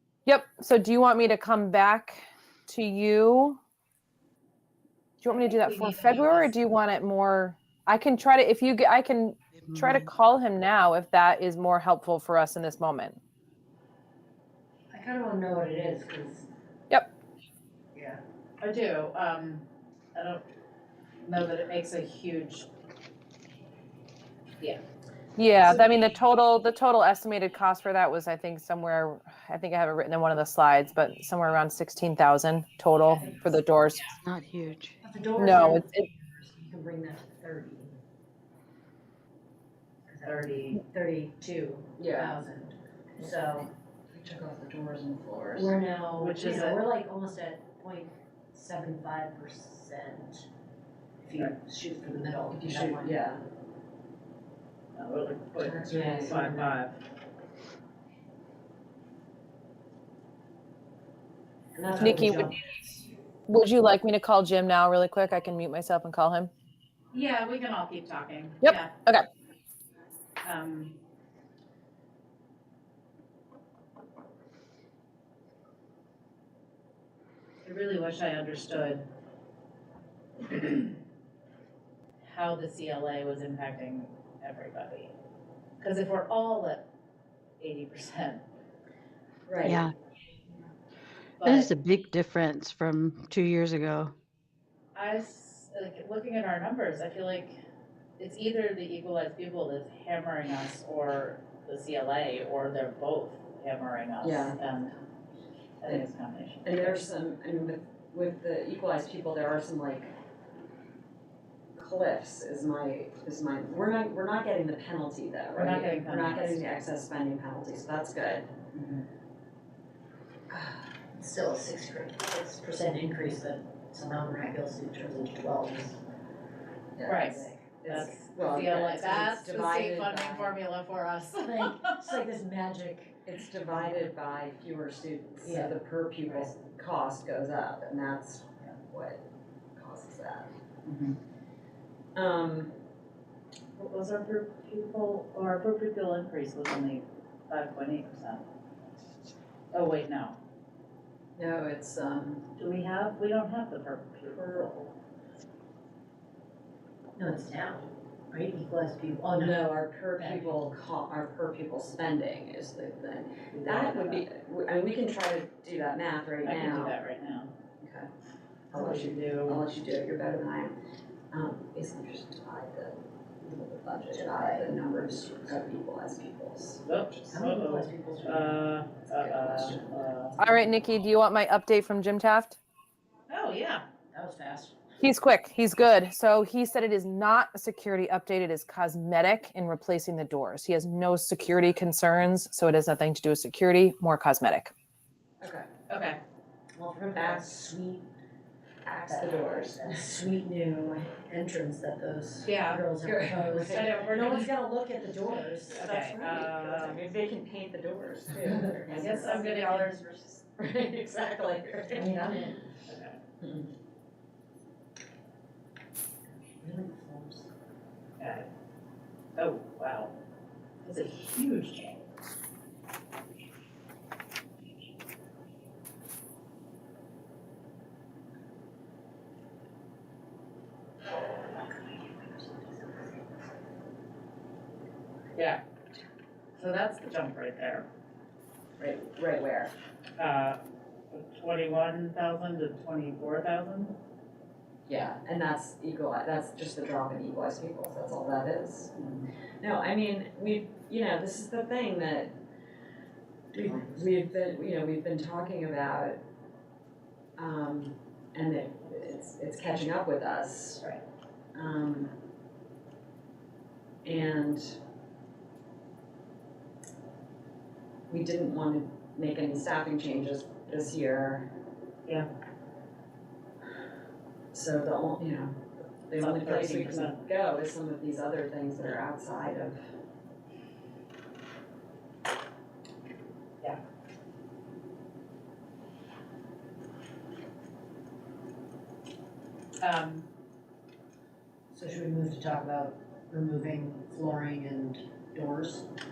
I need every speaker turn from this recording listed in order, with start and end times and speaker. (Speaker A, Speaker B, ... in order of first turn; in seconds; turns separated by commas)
Speaker A: 0.2-3.6, Speaker A: 5.2-13.2, Speaker B: 5.3-6.5, Speaker C: 9.6-10.1, Speaker D: 14.9-16.5, Speaker D: 17.9-18.2, Speaker B: 18.6-19.6, Speaker B: 20.1-20.4, Speaker B: 21.2-22.6, Speaker A: 25.4-34.1, Speaker D: 33.2-33.5, Speaker C: 34.2-35.0, Speaker D: 35.0-37.9, Speaker A: 35.4-36.0, Speaker D: 40.1-43.7, Speaker B: 40.3-40.8, Speaker E: 42.0-42.4, Speaker E: 44.1-45.8, Speaker D: 45.5-50.5, Speaker B: 46.2-46.8, Speaker D: 51.2-53.2, Speaker E: 52.5-53.4, Speaker B: 54.9-57.0, Speaker E: 55.6-56.4, Speaker D: 55.9-56.8, Speaker D: 61.7-63.0, Speaker A: 62.0-62.5, Speaker A: 63.5-66.5, Speaker B: 67.1-68.9, Speaker A: 68.6-69.2, Speaker B: 70.4-70.9, Speaker B: 77.6-79.0, Speaker B: 80.4-80.9, Speaker B: 82.2-85.1, Speaker B: 85.8-86.8, Speaker B: 87.6-88.4, Speaker E: 89.5-89.8, Speaker C: 89.6-89.9, Speaker B: 91.4-91.7, Speaker C: 91.4-94.1, Speaker B: 94.9-97.6, Speaker B: 98.2-104.9, Speaker E: 104.2-104.6, Speaker B: 105.8-107.0, Speaker E: 106.6-110.1, Speaker E: 111.8-118.5, Speaker B: 115.5-116.6, Speaker B: 118.7-119.0, Speaker D: 121.1-126.0, Speaker E: 126.9-130.6, Speaker B: 127.0-131.9, Speaker D: 131.3-133.2, Speaker E: 133.2-139.2, Speaker D: 135.4-135.7, Speaker E: 139.7-140.5, Speaker B: 140.8-141.2, Speaker E: 142.1-142.7, Speaker B: 143.8-148.4, Speaker B: 149.7-150.4, Speaker E: 151.3-152.4, Speaker B: 152.6-154.9, Speaker D: 157.2-159.6, Speaker E: 159.3-166.9, Speaker D: 160.2-160.6, Speaker B: 163.5-164.2, Speaker B: 166.4-167.5, Speaker E: 167.8-168.1, Speaker B: 168.7-169.6, Speaker E: 168.7-170.8, Speaker E: 171.3-176.8, Speaker D: 174.1-174.7, Speaker D: 175.3-175.6, Speaker B: 176.8-180.3, Speaker D: 177.3-178.6, Speaker E: 179.1-180.1, Speaker A: 180.4-182.6, Speaker B: 183.3-183.8, Speaker D: 184.1-184.8, Speaker A: 185.0-194.7, Speaker E: 195.4-195.7, Speaker B: 195.9-196.2, Speaker D: 196.7-198.1, Speaker E: 197.1-197.7, Speaker E: 198.8-199.9, Speaker D: 199.1-206.5, Speaker B: 202.4-202.9, Speaker E: 202.9-204.4, Speaker B: 203.7-204.5, Speaker B: 205.7-207.1, Speaker E: 206.2-212.3, Speaker D: 208.5-209.8, Speaker B: 208.9-210.1, Speaker D: 211.9-212.6, Speaker B: 212.0-213.2, Speaker E: 213.4-213.7, Speaker D: 216.6-217.5, Speaker B: 218.2-218.5, Speaker B: 219.3-220.1, Speaker B: 220.8-222.0, Speaker B: 235.3-235.6, Speaker B: 236.6-237.8, Speaker E: 238.8-239.7, Speaker B: 240.2-240.6, Speaker B: 241.1-243.9, Speaker E: 244.8-248.9, Speaker B: 249.0-249.2, Speaker E: 249.6-252.3, Speaker E: 253.5-256.2, Speaker D: 253.5-254.3, Speaker E: 257.4-260.9, Speaker E: 261.5-262.1, Speaker E: 264.0-264.8, Speaker E: 268.1-271.5, Speaker E: 274.5-279.8, Speaker B: 276.1-277.2, Speaker B: 289.8-290.2, Speaker D: 291.7-295.9